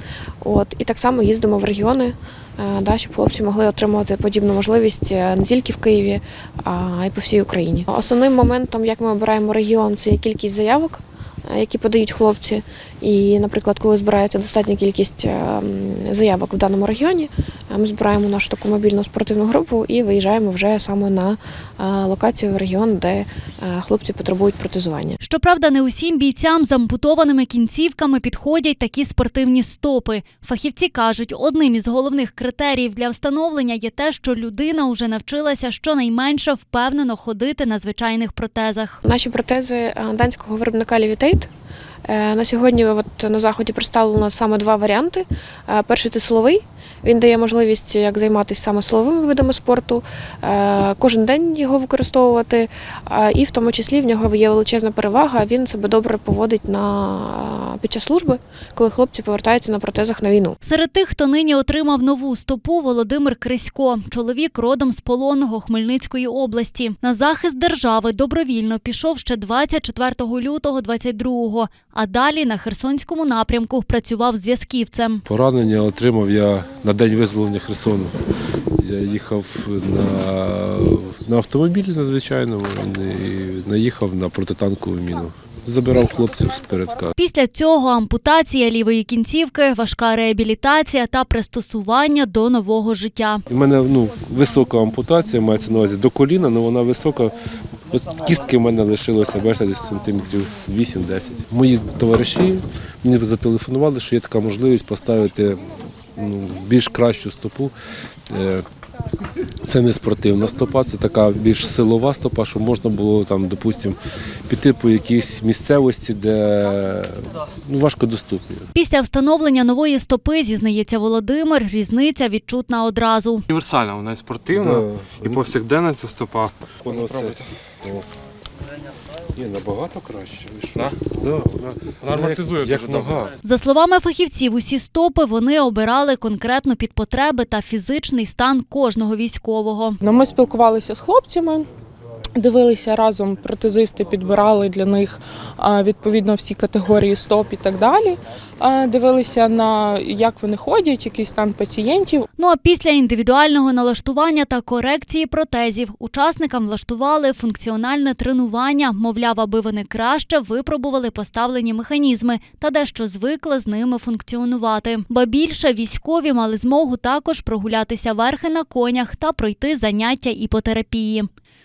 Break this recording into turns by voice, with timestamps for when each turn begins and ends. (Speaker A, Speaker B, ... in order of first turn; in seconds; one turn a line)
Speaker A: 0.4-25.2
Speaker B: 25.2-39.0
Speaker A: 39.0-41.5
Speaker A: 42.1-60.6
Speaker B: 60.6-75.2
Speaker C: 75.3-78.2
Speaker C: 78.8-87.1
Speaker B: 87.2-93.4
Speaker C: 93.5-97.4
Speaker C: 97.9-107.7
Speaker C: 108.3-108.7
Speaker C: 109.6-118.7
Speaker B: 118.8-123.4
Speaker D: 123.5-127.5
Speaker C: 124.5-125.4
Speaker C: 126.8-128.1
Speaker C: 129.4-133.3
Speaker D: 132.0-133.3
Speaker B: 133.4-140.0
Speaker E: 140.0-141.7
Speaker E: 142.4-152.2
Speaker B: 152.4-171.3